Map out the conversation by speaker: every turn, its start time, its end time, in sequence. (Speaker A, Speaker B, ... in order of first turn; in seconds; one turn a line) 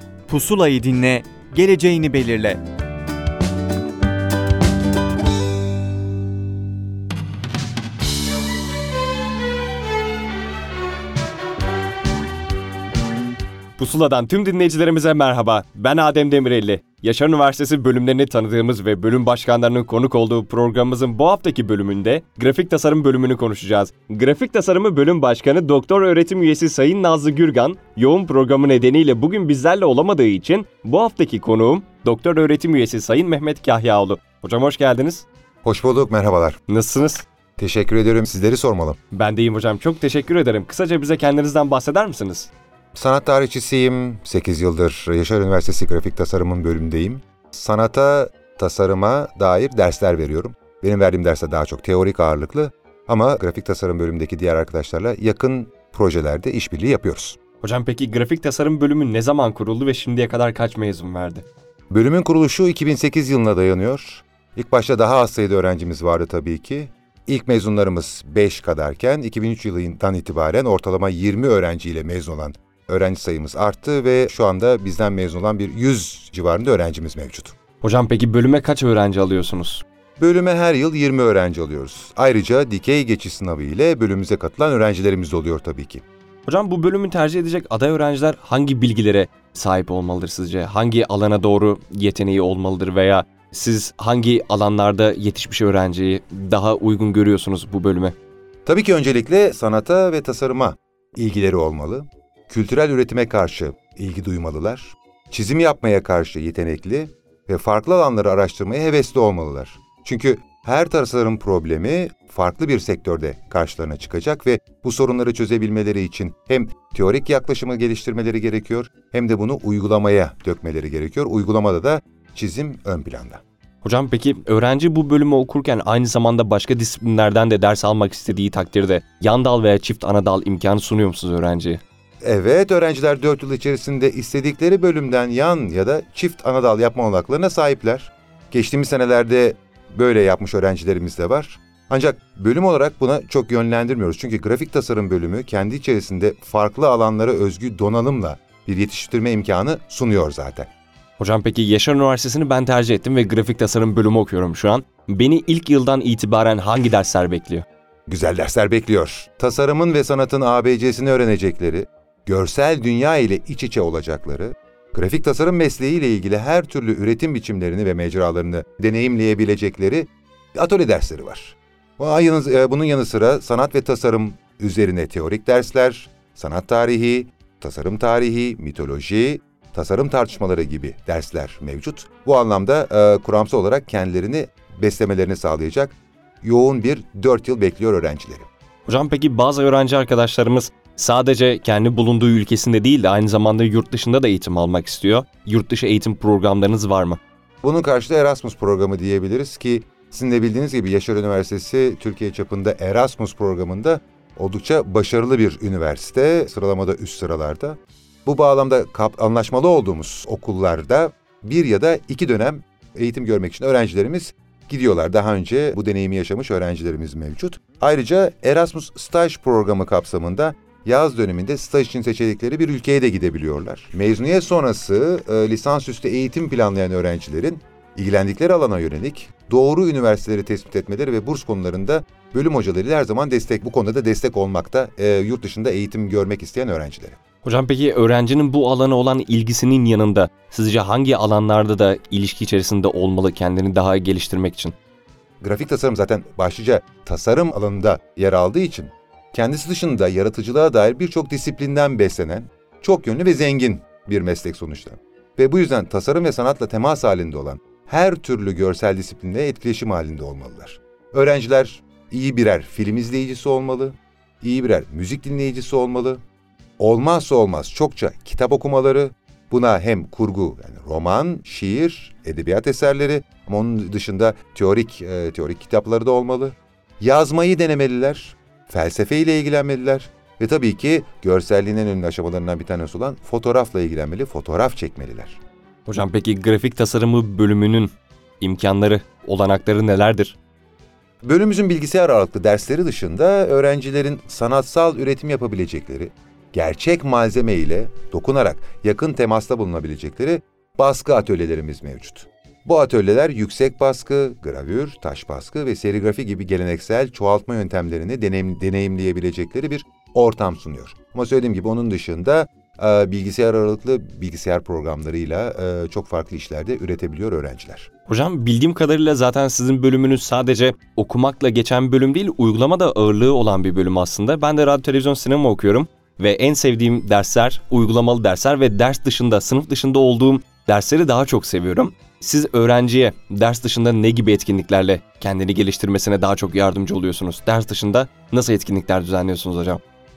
Speaker A: 0.3-2.6
Speaker B: 13.8-35.3
Speaker C: 35.6-36.6
Speaker B: 36.7-37.2
Speaker C: 37.6-39.0
Speaker B: 39.1-42.5
Speaker C: 42.9-57.4
Speaker B: 57.6-61.5
Speaker C: 61.9-77.5
Speaker B: 77.8-79.8
Speaker C: 80.2-86.0
Speaker B: 86.5-98.1
Speaker C: 98.7-123.4
Speaker B: 123.8-131.8
Speaker C: 132.2-150.7
Speaker B: 151.2-157.6
Speaker C: 158.1-188.5
Speaker B: 188.8-197.2
Speaker C: 197.6-237.2
Speaker B: 237.4-244.8
Speaker C: 245.4-266.2
Speaker C: 266.8-285.4
Speaker B: 285.9-290.4
Speaker C: 291.2-317.9
Speaker B: 318.1-339.8